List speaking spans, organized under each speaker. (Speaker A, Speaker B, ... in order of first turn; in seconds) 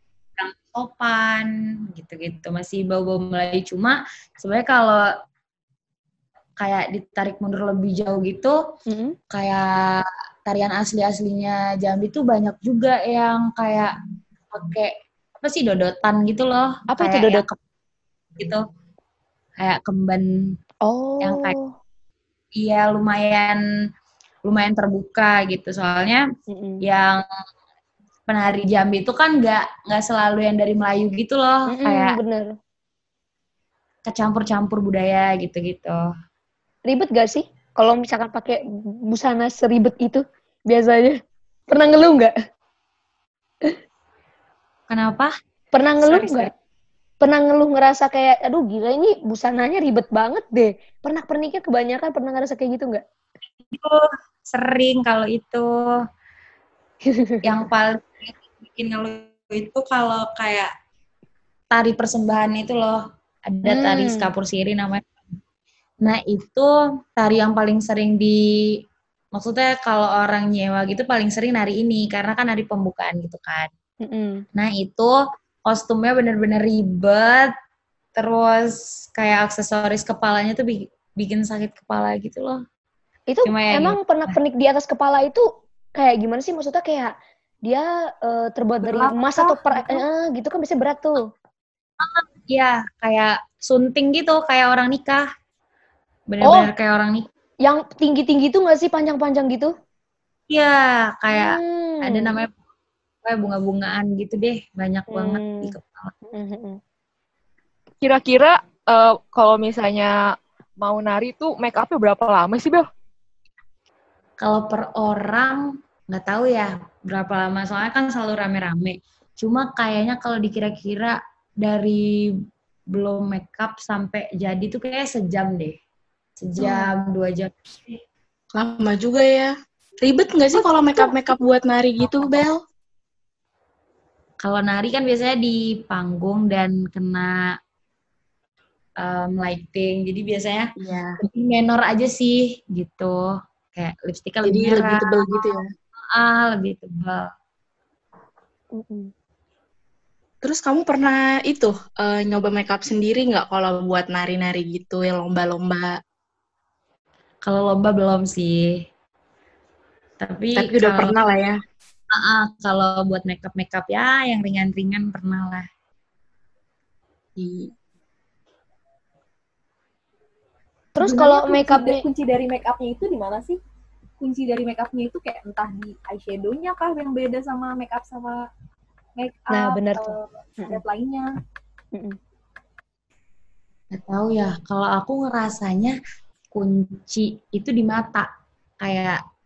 Speaker A: 0.4-5.0, 6.6-8.6, 9.3-13.9, 14.5-17.6, 18.4-18.6, 19.6-20.5, 21.2-21.5, 22.6-23.6, 24.4-26.2, 26.8-27.2, 28.3-32.2, 34.0-36.0, 44.9-45.3, 46.0-46.5, 53.7-56.0, 57.4-60.7, 61.7-65.1, 66.0-68.4, 69.3-73.7, 74.5-77.5, 78.2-82.6, 83.4-84.4, 92.0-95.3, 96.3-97.3, 100.5-102.5, 103.2-106.1, 114.4-122.3, 122.9-125.8, 126.4-128.0, 134.4-137.5, 139.0-140.7, 141.2-145.5, 146.1-147.3, 157.4-158.8, 160.2-161.1, 162.1-165.7, 183.9-185.9, 186.5-188.3, 188.8-189.2
Speaker B: 8.9-9.2, 16.9-17.4, 20.9-21.7, 26.5-26.8, 31.7-32.5, 36.9-41.2, 41.7-42.3, 45.7-46.5, 47.2-53.0, 57.1-57.4, 63.6-64.3, 74.0-74.4, 83.3-85.4, 86.0-87.1, 87.7-91.3, 96.4-96.7, 97.7-99.7, 101.3-102.4, 105.1-105.7, 106.3-106.8, 126.6-126.9, 148.8-149.1, 170.9-172.0, 179.5-180.8
Speaker C: 88.8-90.0, 171.0-173.6, 174.2-178.4, 179.2-181.3
Speaker D: 108.0-110.1, 110.8-112.8
Speaker E: 128.5-132.6, 140.8-141.2, 144.4-145.7, 150.4-155.9, 160.6-161.6, 167.4-167.7